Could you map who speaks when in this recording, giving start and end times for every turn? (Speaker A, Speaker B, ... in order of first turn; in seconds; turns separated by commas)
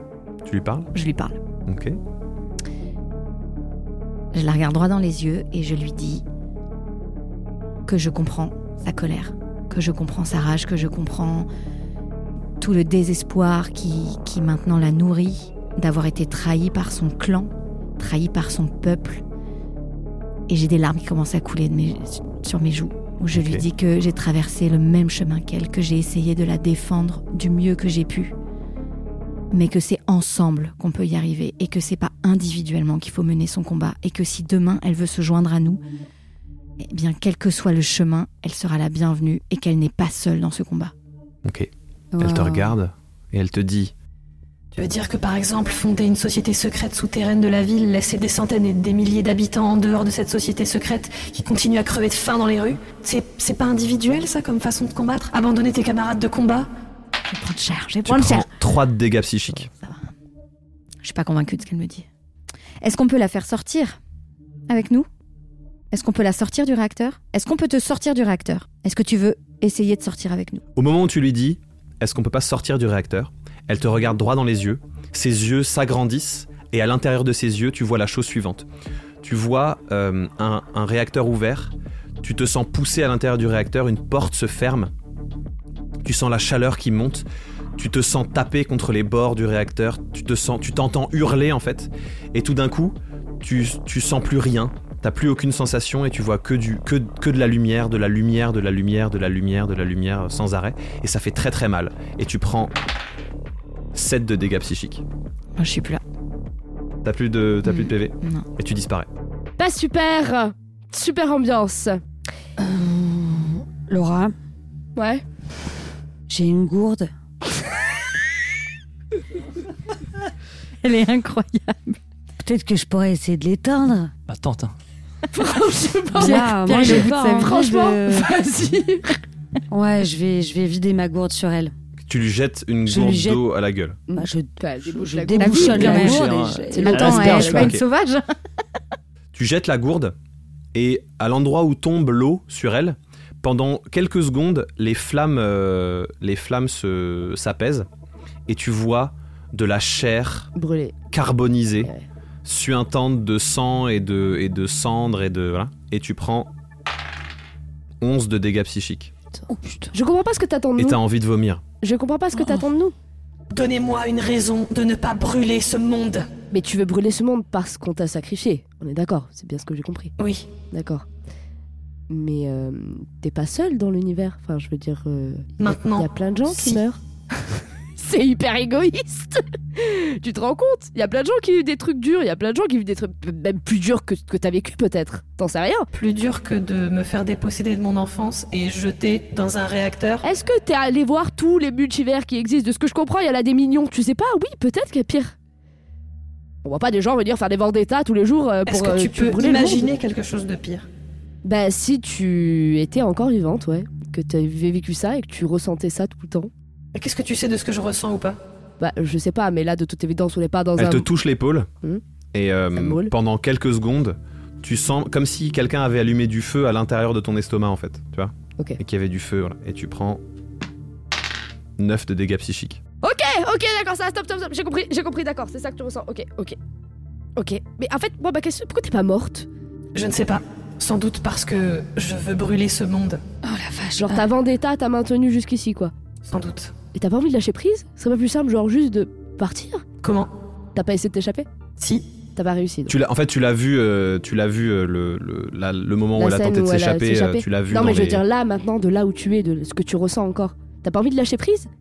Speaker A: 0.5-0.9, Speaker B: 0.9-1.4, Speaker A: 1.7-2.0, Speaker B: 4.3-6.2, Speaker B: 7.9-11.5, Speaker B: 12.6-19.2, Speaker B: 20.5-28.3, Speaker A: 23.4-23.7, Speaker B: 29.5-35.8, Speaker B: 36.8-40.9, Speaker A: 41.5-43.9, Speaker C: 42.1-42.8, Speaker D: 44.7-56.7, Speaker B: 57.3-58.5, Speaker A: 58.0-59.7, Speaker B: 59.8-60.1, Speaker B: 61.0-62.1, Speaker B: 62.8-64.0, Speaker B: 64.7-65.1, Speaker B: 65.9-70.6, Speaker A: 70.8-78.7, Speaker A: 79.2-84.9, Speaker A: 86.0-102.7, Speaker A: 103.9-105.0, Speaker B: 105.6-106.0, Speaker A: 107.0-109.1, Speaker E: 109.6-112.0, Speaker C: 112.6-114.3, Speaker E: 115.0-115.2, Speaker C: 116.3-117.1, Speaker B: 120.8-122.0, Speaker C: 122.4-124.1, Speaker F: 124.3-124.7, Speaker E: 125.3-129.2, Speaker C: 126.2-128.3, Speaker B: 126.2-127.6, Speaker C: 129.7-131.7, Speaker A: 132.0-134.0, Speaker C: 132.9-133.4, Speaker E: 134.1-137.7, Speaker C: 134.2-137.3, Speaker B: 135.4-136.3, Speaker F: 135.5-137.8, Speaker B: 136.8-138.3, Speaker A: 137.6-137.8, Speaker A: 139.3-140.2, Speaker A: 140.7-147.9, Speaker A: 148.5-150.5, Speaker E: 150.6-151.0, Speaker A: 151.1-151.9, Speaker A: 152.4-156.5, Speaker A: 158.0-159.1, Speaker C: 159.5-159.9, Speaker E: 159.9-161.0, Speaker A: 160.8-161.6, Speaker E: 161.8-162.9, Speaker C: 162.4-162.6, Speaker D: 163.5-166.3, Speaker E: 166.5-170.1, Speaker D: 170.2-170.5, Speaker E: 170.7-171.1, Speaker E: 172.1-177.0, Speaker D: 175.6-176.8, Speaker E: 178.0-185.9, Speaker D: 185.9-190.2, Speaker E: 190.2-195.3, Speaker E: 196.6-199.9, Speaker D: 198.7-200.9, Speaker E: 201.4-206.5, Speaker D: 206.9-208.4, Speaker E: 208.8-211.1, Speaker A: 210.8-211.7, Speaker A: 212.3-220.2, Speaker E: 212.7-213.1, Speaker A: 221.8-222.8, Speaker E: 223.0-226.6, Speaker E: 227.4-229.5, Speaker D: 229.9-233.2, Speaker C: 233.4-234.3, Speaker E: 234.0-235.9, Speaker D: 236.3-236.7, Speaker E: 236.9-239.8, Speaker D: 240.0-240.3, Speaker E: 240.8-241.5, Speaker D: 241.8-242.1, Speaker E: 242.4-242.9, Speaker A: 242.9-248.2, Speaker E: 246.2-251.7